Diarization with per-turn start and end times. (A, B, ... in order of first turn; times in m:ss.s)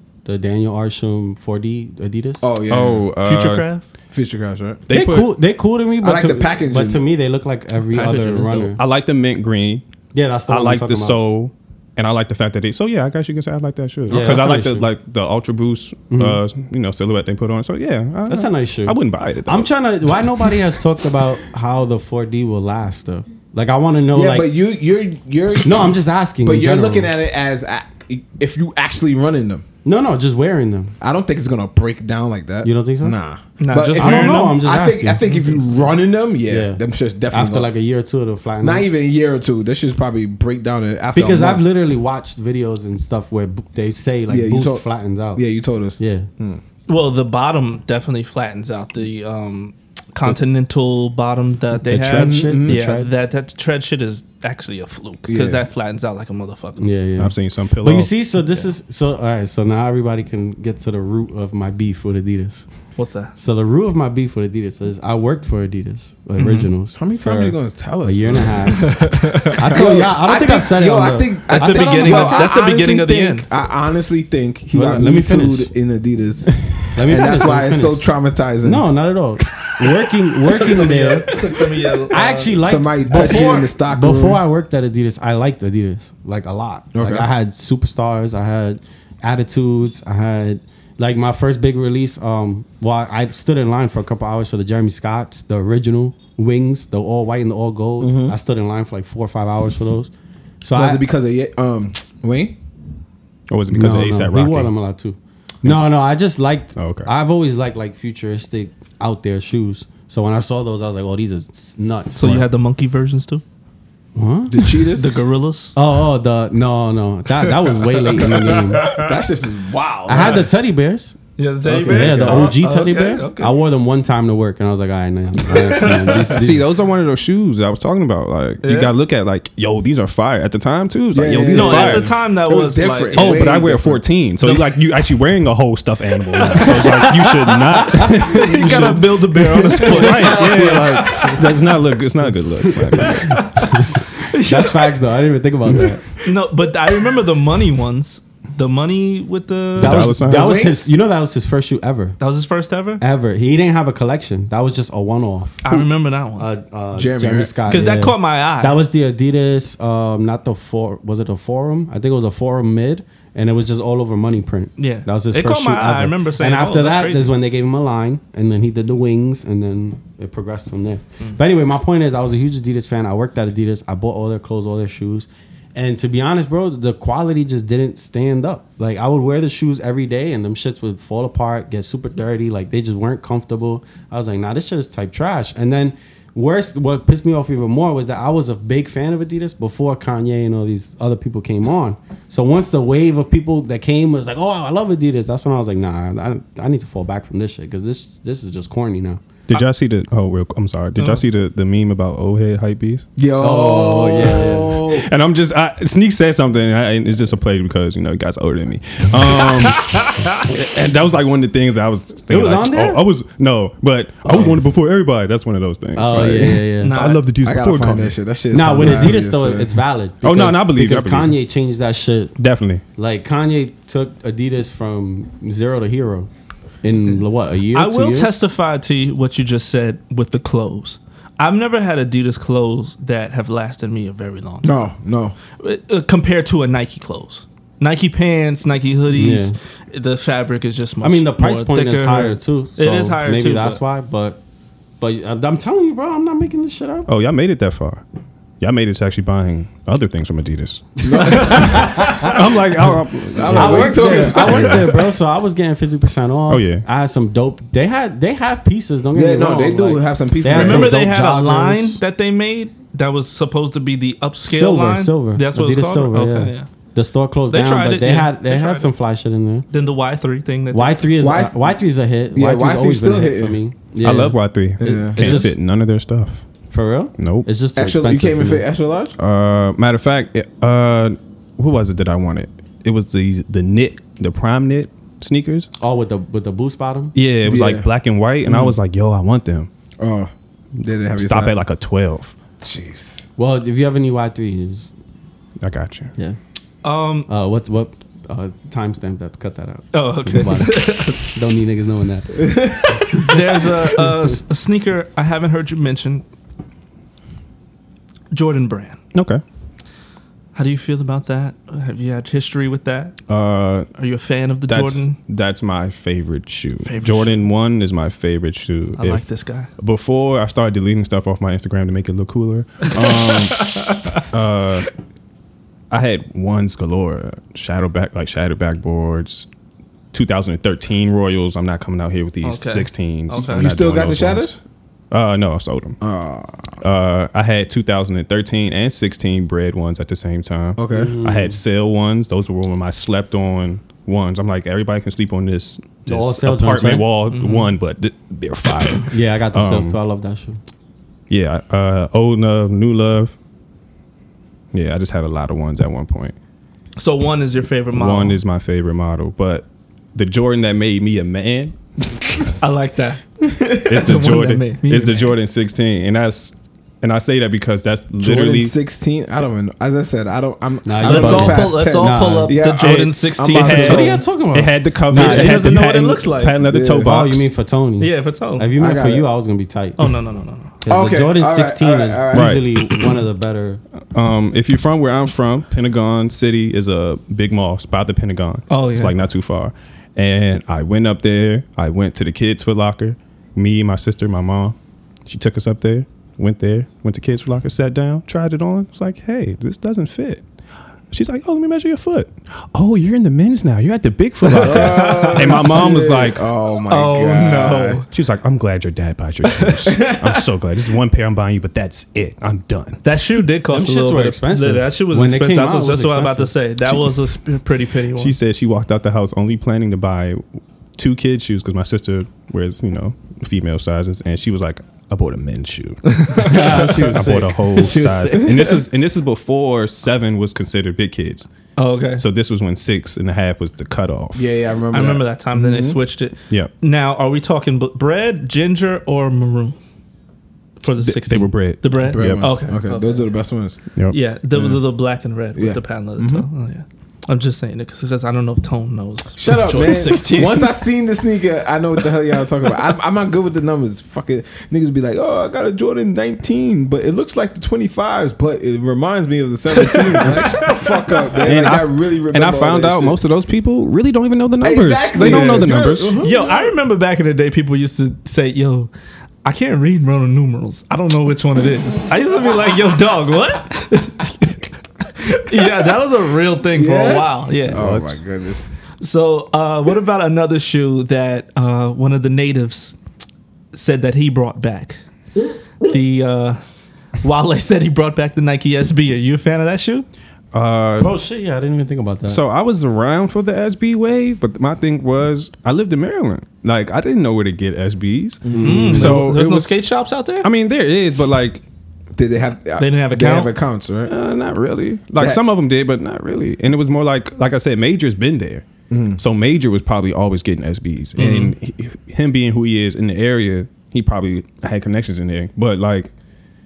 0:00.2-0:02.4 A
0:02.4-0:03.0 B
0:02.7-0:03.6 C
0:03.2-0:03.8 D
0:04.1-0:04.8 B
0:04.9-0:05.3 C
0:04.9-0:08.8 A
0:06.0-0:07.0 B
0:07.9-0:08.7 D
0:08.8-0:09.8 C
0:10.1-0:11.2 A
0:10.5-0:19.7 C
0:14.1-0:14.8 A
0:16.1-0:16.4 A
0:18.3-0:24.5 A
0:24.1-0:29.6 B
0:25.6-0:27.1 A
0:29.8-0:30.9 A
0:31.0-0:37.7 B
0:32.6-0:33.2 A
0:33.6-0:34.6 D
0:33.9-0:35.2 A
0:35.2-0:35.8 D
0:36.5-0:38.9 A
0:38.6-0:41.7 B
0:41.1-0:45.4 A
0:44.3-0:44.8 B
0:45.4-0:46.6 B
0:46.0-0:46.3 A
0:46.9-0:56.9 D
0:51.8-0:53.1 A
0:52.1-0:52.8 B
0:55.3-0:55.6 B
0:56.8-1:02.6 A
0:57.2-0:58.1 C
1:03.0-1:03.3 D
1:03.4-1:09.0 A
1:06.4-1:06.7 D
1:07.0-1:18.9 B
1:08.7-1:09.8 D
1:09.6-1:12.5 A
1:11.5-1:13.5 D
1:14.7-1:15.7 A
1:16.9-1:18.0 A
1:18.6-1:21.3 A
1:19.7-1:22.5 D
1:22.1-1:40.1 A
1:22.5-1:24.4 B
1:23.1-1:23.6 D
1:26.9-1:27.3 B
1:38.0-1:38.4 B
1:40.6-1:41.0 A
1:40.7-1:42.6 B
1:43.5-1:44.7 C
1:43.7-1:52.4 A
1:46.8-1:47.1 C
1:52.1-1:53.4 D
1:54.1-1:54.6 A
1:54.5-1:55.2 B
1:54.9-1:55.8 D
1:55.8-1:59.0 A
1:58.2-1:59.1 D
1:58.8-2:00.5 B
2:00.1-2:01.2 A
2:01.4-2:03.6 D
2:01.6-2:02.6 B
2:01.8-2:06.7 A
2:05.5-2:06.3 D
2:06.3-2:12.1 C
2:08.6-2:08.9 D
2:11.1-2:14.0 B
2:11.5-2:13.4 D
2:13.1-2:23.4 C
2:14.4-2:14.7 D
2:16.5-2:17.1 D
2:18.0-2:21.4 D
2:19.3-2:20.8 B
2:23.0-2:25.0 D
2:23.0-2:26.0 A
2:26.2-2:30.1 D
2:29.8-2:32.2 A
2:29.8-2:30.7 C
2:30.2-2:30.9 B
2:32.2-2:33.0 D
2:33.0-2:35.8 A
2:35.6-2:36.5 D
2:36.4-3:19.2 A
2:36.9-2:37.9 B
2:37.7-2:38.8 D
2:44.8-2:47.3 D
3:19.5-3:23.0 C
3:21.0-3:21.2 D
3:23.2-3:25.1 B
3:23.4-3:24.8 A
3:24.9-3:38.1 C
3:29.3-3:30.4 D
3:32.3-3:33.0 A
3:34.2-3:34.6 A
3:35.9-3:36.9 A
3:36.8-3:37.2 D
3:37.4-3:39.8 B
3:38.5-3:42.3 A
3:40.2-3:41.4 C
3:42.4-3:42.8 C
3:43.0-3:46.3 A
3:46.8-3:48.3 A
3:47.7-3:54.8 D
3:54.6-3:55.3 B
3:55.6-4:03.8 D
3:59.1-3:59.6 A
4:01.0-4:04.4 A
4:05.0-4:07.1 A
4:07.1-4:08.0 C
4:08.6-4:14.9 C
4:11.0-4:12.1 B
4:11.4-4:12.3 A
4:11.4-4:11.8 D
4:13.3-4:14.9 B
4:13.5-4:22.0 A
4:16.5-4:16.8 C
4:19.1-4:21.0 B
4:20.5-4:26.7 D
4:24.4-4:29.7 A
4:27.5-4:28.9 D
4:29.7-4:31.1 D
4:30.7-4:35.5 A
4:31.2-4:31.7 B
4:32.3-4:33.6 B
4:34.0-4:36.4 C
4:34.8-4:35.5 B
4:36.7-4:38.6 A
4:37.2-4:37.5 C
4:37.8-4:39.1 B
4:39.2-4:45.7 C
4:45.8-4:47.1 A
4:47.1-4:49.7 C
4:47.4-4:47.9 B
4:48.4-4:48.7 B
4:50.0-4:51.6 B
4:51.2-4:52.3 C
4:52.6-4:53.2 B
4:53.4-4:54.9 A
4:55.6-4:56.1 C
4:56.8-4:57.3 D
4:57.3-5:02.6 A
4:59.9-5:01.2 D
5:02.4-5:03.3 B
5:03.2-5:06.2 D
5:08.3-5:09.0 D
5:09.1-5:09.4 C
5:10.5-5:13.2 D
5:13.3-5:13.9 C
5:14.0-5:15.2 D
5:14.7-5:19.2 C
5:16.8-5:17.4 D
5:19.0-5:19.7 D
5:19.8-5:24.9 C
5:23.0-5:24.2 D
5:25.9-5:29.5 C
5:30.1-5:34.6 C
5:32.4-5:33.7 D
5:33.4-5:34.6 B
5:35.1-5:36.0 C
5:36.0-5:36.8 B
5:36.8-5:50.0 C
5:40.8-5:41.2 B
5:40.9-5:41.6 A
5:46.0-5:47.0 A
5:47.3-5:47.7 D
5:49.1-5:50.6 A
5:51.3-5:53.3 C
5:54.7-5:56.3 C
5:57.0-5:58.4 D
5:57.9-6:01.8 C
6:02.6-6:05.3 D
6:03.8-6:08.7 C
6:08.2-6:14.1 B
6:10.8-6:12.6 A
6:11.0-6:14.2 D
6:12.8-6:17.5 C
6:13.6-6:15.7 A
6:15.1-6:16.6 D
6:16.6-6:17.2 B
6:17.0-6:20.1 A
6:18.0-6:18.7 D
6:18.8-6:19.3 B
6:20.0-6:20.7 D
6:20.8-6:23.8 A
6:20.9-6:22.6 B
6:22.3-6:22.7 C
6:24.1-6:34.7 C
6:28.7-6:29.1 D
6:35.2-6:40.4 C
6:41.1-6:46.4 C
6:44.4-6:45.9 D
6:44.5-6:48.0 B
6:46.9-6:48.0 D
6:48.1-6:53.0 C
6:49.6-6:50.4 D
6:53.0-6:58.3 D
6:53.7-6:56.5 A
6:58.2-7:00.4 C
7:01.0-7:11.5 C
7:06.0-7:07.1 D
7:06.4-7:08.7 A
7:11.8-7:12.2 D
7:12.2-7:14.5 C
7:14.3-7:16.0 B
7:14.9-7:19.8 D
7:20.8-7:23.2 D
7:21.0-7:22.5 C
7:22.1-7:23.8 B
7:24.1-7:30.7 D
7:25.6-7:26.4 B
7:29.4-7:43.2 B
7:39.7-7:41.3 D
7:41.4-7:46.2 C
7:44.6-7:46.7 B
7:45.2-7:45.7 D
7:46.2-7:48.9 D
7:49.4-7:57.8 D
7:56.7-7:58.6 B
7:57.7-7:58.2 C
7:59.0-8:03.0 D
8:03.7-8:05.0 D
8:05.8-8:06.6 D
8:07.2-8:10.0 D
8:10.5-8:11.1 C
8:11.0-8:12.4 A
8:12.3-8:19.7 C
8:18.4-8:19.1 B
8:18.5-8:19.2 A
8:18.6-8:20.5 D
8:20.4-8:21.6 C
8:22.1-8:24.1 B
8:22.8-8:23.5 D
8:24.1-8:28.6 C
8:28.9-8:29.2 B
8:29.2-8:36.1 C
8:31.2-8:31.5 D